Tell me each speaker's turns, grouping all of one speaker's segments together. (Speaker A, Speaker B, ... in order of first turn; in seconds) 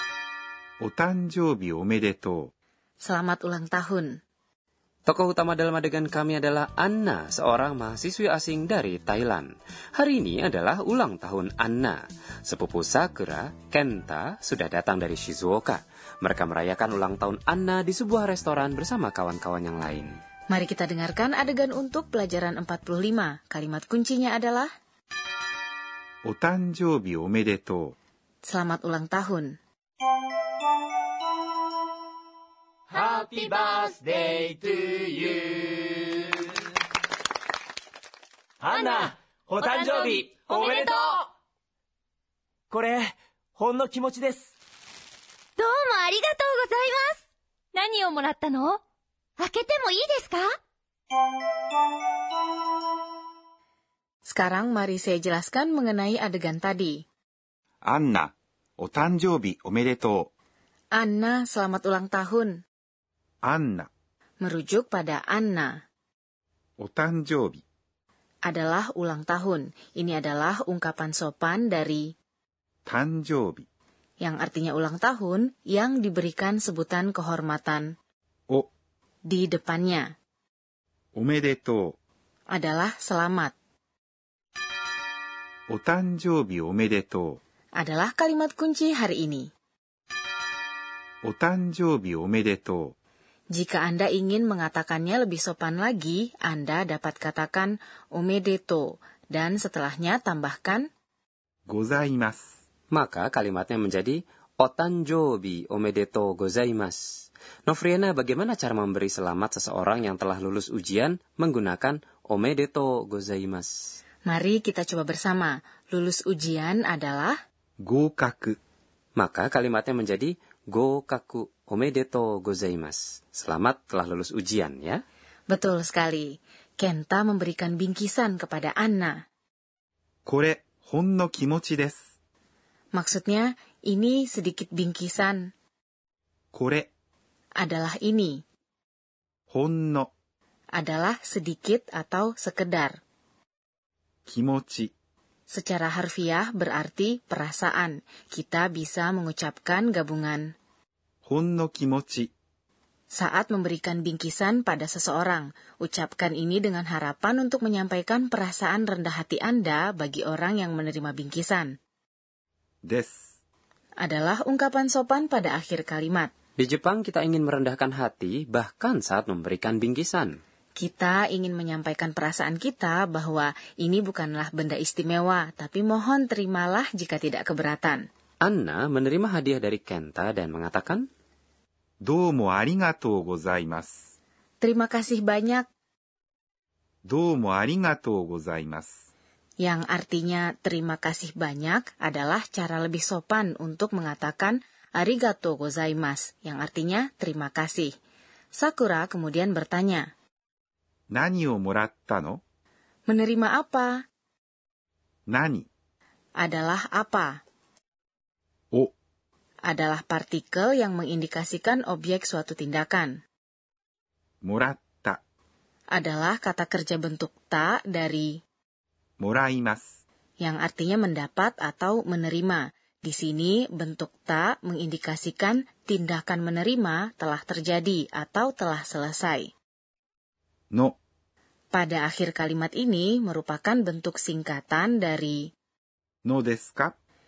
Speaker A: 0.8-2.5, 26.2-27.9, 57.9-60.3, 63.5-63.9, 66.8-67.6, 72.9-73.7, 81.2-82.0, 85.7-87.4, 91.2-93.0, 101.7-102.5, 117.8-118.6, 130.3-132.0, 136.5-136.9, 139.5-140.1, 144.3-144.9, 151.3-152.3, 162.8-163.2, 182.0-183.9, 187.1-188.9, 201.1-202.4, 205.3-205.7, 214.4-215.2, 219.2-219.9, 236.2-237.0
Speaker B: 3.0-4.2, 20.5-24.7, 28.4-29.6, 54.3-57.0, 61.0-62.6, 64.4-65.8, 68.5-72.1, 74.2-77.9, 79.3-80.1, 82.5-83.5, 87.8-89.5, 93.5-100.9, 114.2-117.4, 125.5-129.2, 132.9-135.5, 137.6-138.4, 140.8-143.0, 145.5-150.5, 153.1-161.8, 164.0-166.3, 170.8-178.1, 184.6-185.7, 189.6-197.9, 198.5-200.1, 203.1-204.1, 206.4-207.4, 209.7-213.2, 215.9-218.4, 220.4-229.5, 231.7-235.5
Speaker C: 5.1-20.2, 102.9-107.0, 107.7-114.0, 119.2-125.0, 166.6-170.4, 178.4-181.1
Speaker D: 32.9-36.2, 38.6-41.2, 42.7-44.5
Speaker E: 39.6-41.1, 45.6-47.2, 47.7-48.8, 49.4-50.6